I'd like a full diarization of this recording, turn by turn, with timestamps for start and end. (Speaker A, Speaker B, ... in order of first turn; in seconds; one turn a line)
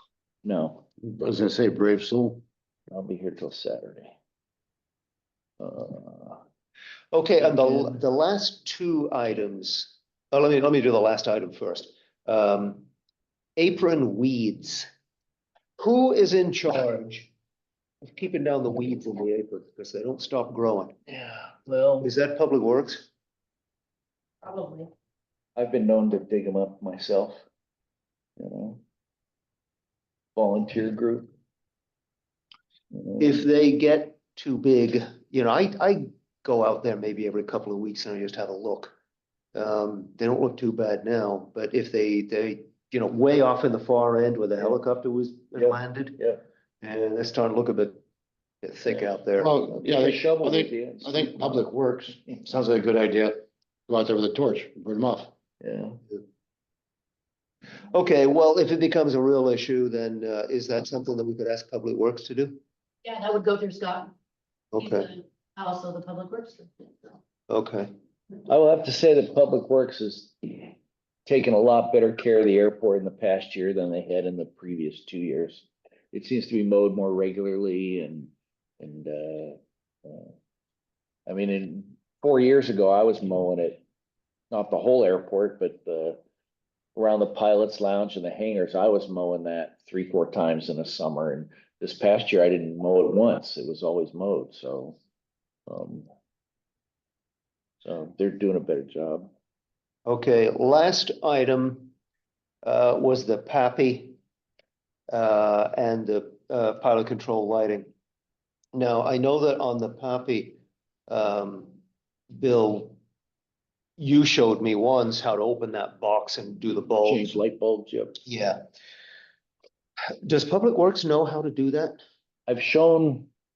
Speaker A: 0.4-0.8
Speaker B: 1.0-2.4
Speaker A: 2.9-4.1
Speaker A: 5.6-6.4
Speaker C: 7.1-12.9
Speaker C: 13.6-14.9
Speaker C: 15.8-17.3
Speaker C: 18.1-20.9
Speaker A: 21.1-22.1
Speaker C: 22.0-23.1
Speaker D: 24.4-24.9
Speaker A: 25.6-27.4
Speaker A: 28.4-28.8
Speaker A: 30.4-31.3
Speaker A: 32.9-33.4
Speaker C: 33.2-39.0
Speaker C: 39.5-46.2
Speaker A: 45.6-46.4
Speaker C: 46.8-48.0
Speaker C: 48.6-49.5
Speaker B: 49.4-55.3
Speaker A: 49.7-51.6
Speaker A: 55.6-56.0
Speaker C: 57.9-62.6
Speaker D: 63.0-64.1
Speaker C: 64.7-65.1
Speaker D: 64.8-66.7
Speaker C: 67.5-67.9
Speaker A: 68.5-70.7
Speaker A: 71.3-80.3
Speaker A: 81.3-83.8
Speaker A: 84.5-86.2
Speaker A: 87.0-95.0
Speaker A: 95.7-96.1
Speaker A: 97.8-99.3
Speaker C: 100.1-101.9
Speaker C: 102.6-104.2
Speaker C: 105.1-107.9
Speaker C: 108.7-111.8
Speaker C: 112.3-113.0
Speaker C: 114.0-117.3
Speaker A: 117.0-118.2
Speaker C: 118.2-118.6
Speaker C: 120.2-122.0
Speaker A: 122.5-123.3